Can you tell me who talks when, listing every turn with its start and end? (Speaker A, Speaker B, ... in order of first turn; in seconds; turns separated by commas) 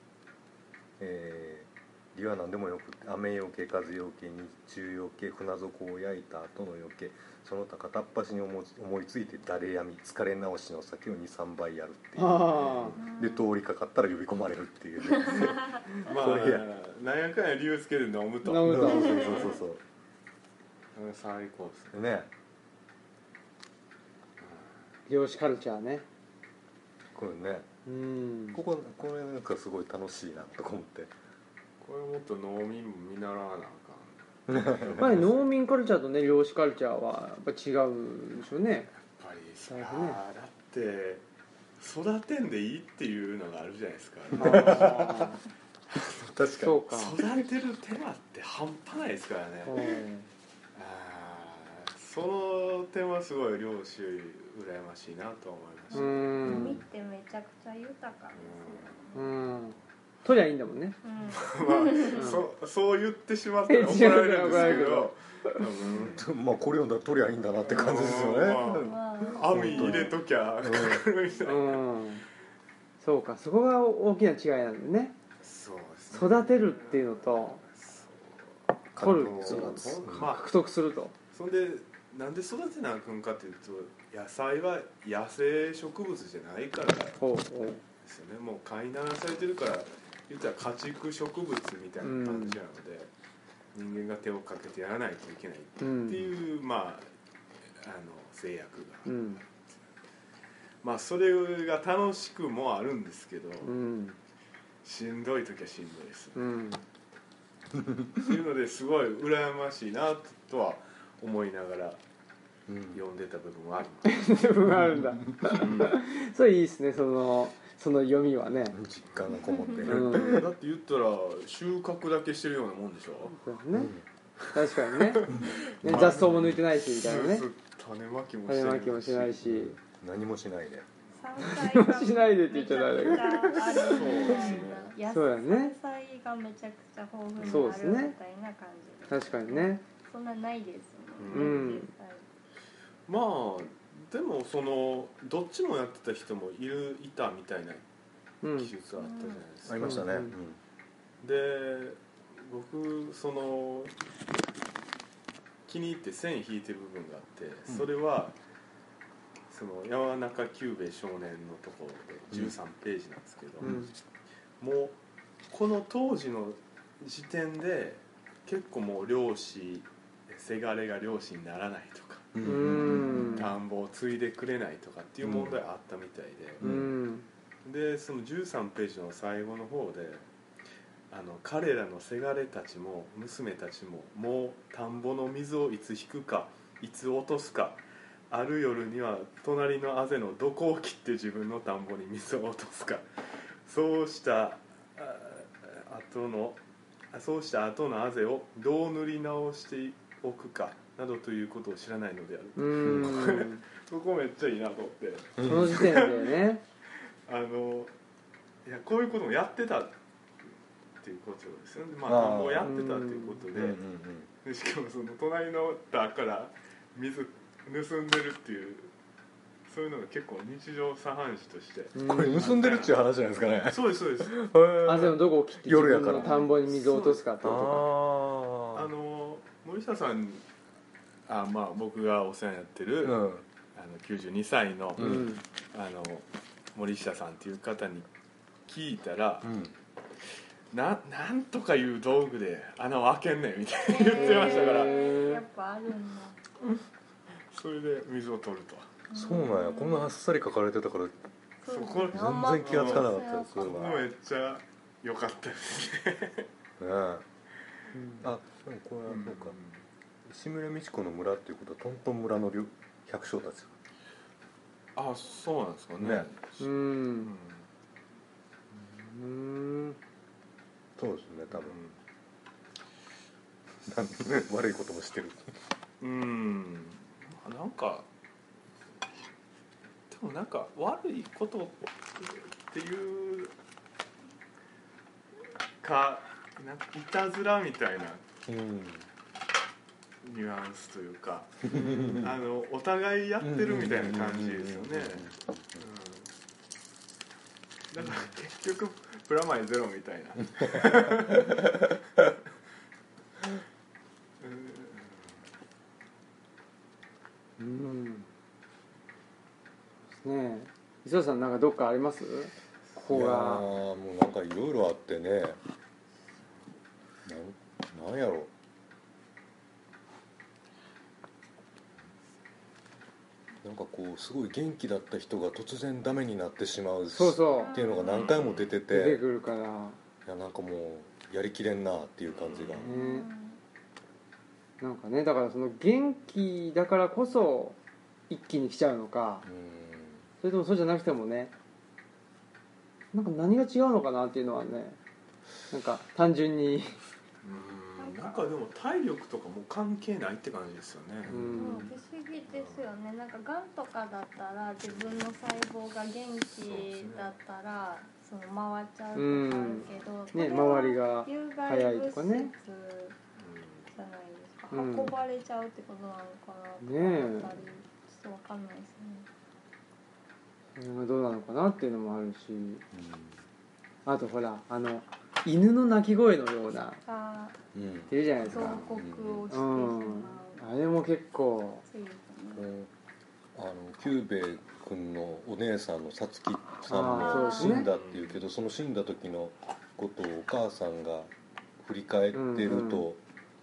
Speaker A: 1.0-16.6, Speaker B: 12.2-13.0, Speaker C: 12.5-13.1, Speaker D: 13.0-13.5, Speaker D: 15.3-15.8, Speaker C: 16.0-19.6, Speaker B: 18.4-19.2, Speaker A: 18.5-19.8, Speaker D: 19.0-19.5, Speaker C: 20.9-21.9, Speaker A: 21.9-22.3, Speaker C: 24.4-24.7, Speaker B: 25.1-26.1, Speaker A: 27.1-27.7, Speaker B: 27.9-28.6, Speaker A: 28.5-31.1, Speaker C: 31.8-35.4, Speaker A: 34.5-35.1, Speaker B: 35.0-38.9, Speaker C: 39.0-41.2, Speaker B: 39.7-40.2, Speaker C: 41.8-45.3, Speaker B: 44.3-45.4, Speaker A: 44.4-45.3, Speaker C: 45.9-46.3, Speaker A: 46.3-46.8, Speaker B: 46.6-47.2, Speaker C: 46.9-50.0, Speaker B: 49.6-50.3, Speaker C: 50.7-56.7, Speaker D: 55.9-59.3, Speaker B: 55.9-56.8, Speaker C: 58.3-59.0, Speaker B: 59.1-61.0, Speaker D: 61.0-62.4, Speaker C: 61.2-66.2, Speaker B: 62.1-62.5, Speaker B: 63.7-65.7, Speaker D: 64.5-64.8, Speaker A: 66.0-71.0, Speaker C: 67.7-71.9, Speaker D: 68.5-70.2, Speaker B: 71.4-72.2, Speaker B: 73.0-75.2, Speaker C: 75.4-80.5, Speaker B: 76.1-77.6, Speaker A: 78.9-80.3, Speaker B: 79.0-81.1, Speaker C: 81.3-87.2, Speaker B: 87.2-87.8, Speaker C: 88.0-93.1, Speaker B: 92.0-92.6, Speaker C: 93.7-97.1, Speaker B: 95.8-96.2, Speaker C: 97.8-99.1, Speaker B: 99.0-99.4, Speaker C: 100.8-103.7, Speaker B: 103.6-104.2, Speaker C: 104.8-106.5, Speaker B: 106.3-106.8, Speaker A: 107.7-108.3, Speaker C: 108.2-112.0, Speaker A: 112.7-113.0, Speaker C: 112.9-114.4, Speaker B: 114.0-118.8, Speaker A: 114.7-115.7, Speaker C: 115.4-116.0, Speaker A: 118.7-120.5, Speaker C: 119.1-123.3, Speaker D: 119.3-119.8, Speaker B: 119.8-120.4, Speaker B: 123.3-123.9, Speaker A: 123.7-124.0, Speaker B: 124.5-127.5, Speaker C: 124.8-129.4, Speaker A: 125.3-126.6, Speaker B: 128.5-129.8, Speaker A: 129.4-130.9, Speaker D: 131.1-142.3, Speaker B: 131.4-135.7, Speaker C: 133.6-134.9, Speaker C: 137.4-137.7, Speaker B: 137.4-138.1, Speaker B: 139.1-139.8, Speaker C: 141.2-141.7, Speaker B: 141.3-141.9, Speaker C: 143.1-147.8, Speaker B: 148.4-148.7, Speaker C: 148.5-150.1, Speaker D: 149.0-149.4, Speaker A: 149.6-150.6, Speaker B: 149.8-150.3, Speaker C: 151.2-153.9, Speaker C: 155.7-158.3, Speaker C: 159.5-163.8, Speaker A: 163.6-163.9, Speaker B: 163.6-163.9, Speaker C: 164.6-176.7, Speaker A: 172.3-173.2, Speaker B: 172.4-173.5, Speaker D: 172.7-173.5, Speaker A: 175.2-175.6, Speaker A: 176.6-176.9, Speaker B: 176.6-177.3, Speaker C: 177.6-180.3, Speaker C: 181.1-206.4, Speaker B: 202.6-203.6, Speaker A: 202.8-203.3, Speaker A: 205.3-205.8, Speaker B: 205.4-206.6, Speaker C: 207.3-207.9, Speaker C: 208.6-209.9, Speaker C: 211.0-213.8, Speaker A: 212.0-212.7, Speaker B: 212.6-213.4, Speaker A: 213.5-214.3, Speaker C: 214.4-218.9, Speaker C: 219.7-223.0, Speaker B: 221.9-222.5, Speaker A: 222.0-226.5, Speaker C: 223.6-224.4, Speaker B: 224.8-227.8, Speaker C: 226.1-227.2, Speaker A: 227.4-228.9, Speaker C: 228.7-230.4, Speaker C: 231.3-233.2, Speaker A: 233.0-233.4, Speaker C: 233.7-238.1, Speaker A: 234.9-235.3, Speaker B: 235.0-235.4, Speaker C: 238.7-239.5, Speaker A: 239.4-239.7, Speaker C: 240.7-245.2, Speaker D: 243.9-246.4, Speaker B: 244.2-245.4, Speaker C: 247.5-248.9, Speaker D: 249.1-250.1, Speaker A: 249.1-251.2, Speaker D: 251.6-254.0, Speaker C: 251.7-256.5, Speaker A: 252.1-254.1, Speaker A: 256.8-257.2, Speaker B: 257.9-258.2, Speaker A: 258.2-259.6, Speaker C: 259.1-259.8, Speaker A: 260.2-263.7, Speaker C: 264.9-267.6, Speaker A: 266.0-266.3, Speaker B: 266.6-267.3, Speaker B: 268.8-270.0, Speaker A: 271.0-271.8, Speaker C: 271.5-271.9, Speaker A: 273.8-275.5, Speaker C: 276.0-278.1, Speaker C: 280.1-283.5, Speaker C: 285.8-288.2, Speaker A: 288.5-289.0, Speaker C: 290.2-296.3, Speaker A: 291.6-292.4, Speaker B: 291.7-292.2, Speaker A: 293.4-295.8, Speaker C: 297.9-301.9, Speaker C: 304.4-305.4, Speaker B: 307.6-308.3, Speaker B: 310.2-313.7, Speaker A: 313.1-315.6, Speaker A: 317.2-318.5, Speaker A: 323.6-329.2, Speaker B: 327.1-327.8, Speaker D: 327.5-328.4, Speaker C: 328.0-328.8, Speaker B: 328.9-330.0, Speaker A: 330.2-332.9, Speaker C: 332.2-332.9, Speaker B: 332.8-333.3, Speaker D: 332.9-333.6, Speaker B: 334.8-337.8, Speaker B: 338.3-339.4, Speaker A: 339.4-340.2, Speaker B: 340.4-341.5, Speaker B: 343.1-345.0, Speaker B: 345.7-347.0, Speaker C: 347.4-351.4, Speaker D: 348.0-348.5, Speaker A: 351.3-351.6, Speaker B: 351.3-351.9, Speaker D: 351.5-363.2, Speaker C: 352.5-352.9, Speaker C: 354.9-355.2, Speaker C: 356.6-357.4, Speaker B: 359.1-362.5, Speaker C: 363.4-363.9, Speaker D: 363.9-369.3, Speaker B: 364.7-365.1, Speaker B: 366.8-367.6, Speaker B: 370.8-372.8, Speaker A: 372.9-373.4, Speaker B: 374.1-377.0, Speaker D: 377.0-377.6, Speaker A: 377.7-379.5, Speaker B: 378.1-378.9, Speaker D: 378.4-380.7, Speaker B: 379.5-381.8, Speaker D: 381.9-382.7, Speaker A: 382.5-382.9, Speaker A: 383.5-393.2, Speaker B: 386.9-387.9, Speaker D: 387.1-387.9, Speaker C: 387.7-388.4, Speaker B: 392.3-393.1